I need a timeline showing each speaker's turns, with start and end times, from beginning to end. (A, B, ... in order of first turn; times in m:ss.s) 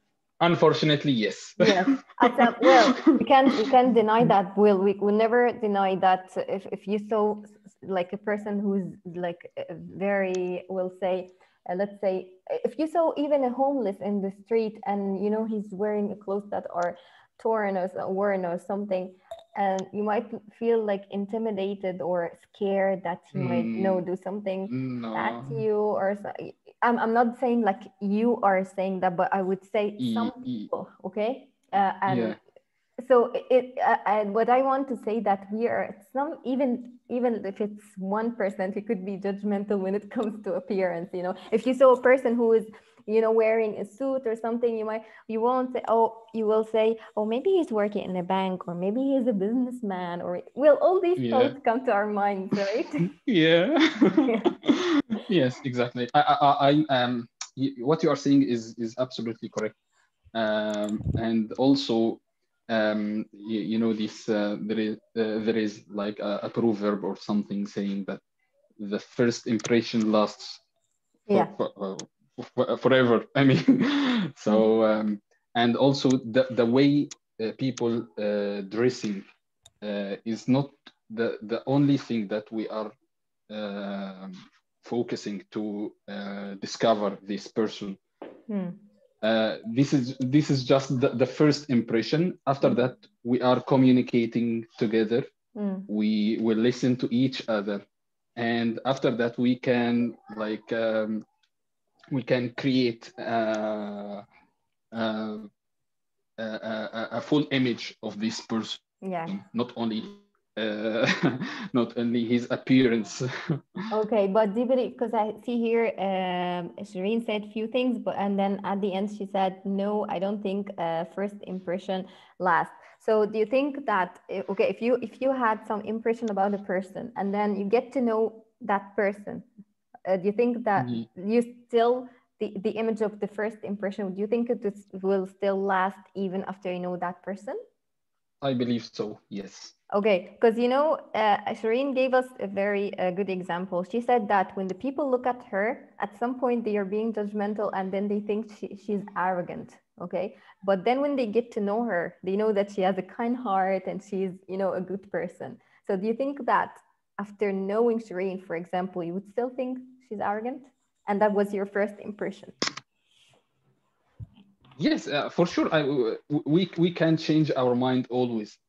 0:00.4-0:03.2 A
0:01.6-0:32.4 B
0:23.3-0:24.0 A
0:24.7-0:25.6 A
0:30.0-0:30.7 A
0:32.1-0:32.4 A
0:33.0-0:53.1 B
0:51.2-0:51.6 A
0:53.2-0:59.8 A
1:00.3-1:08.2 A
1:08.8-1:10.6 A
1:11.3-1:19.3 A
1:19.8-1:22.9 A
1:23.5-1:28.0 A
1:28.5-1:28.8 B
1:29.2-1:35.3 A
1:35.6-1:35.9 B
1:35.9-1:37.8 A
1:38.4-1:41.2 A
1:42.1-1:44.2 A
1:44.9-1:45.5 A
1:46.4-1:53.3 A
1:49.0-1:49.3 B
1:53.9-2:09.5 B
2:10.1-2:17.6 B
2:10.8-2:11.1 A
2:18.4-2:19.7 A
2:19.9-2:42.6 B
2:44.8-2:48.6 A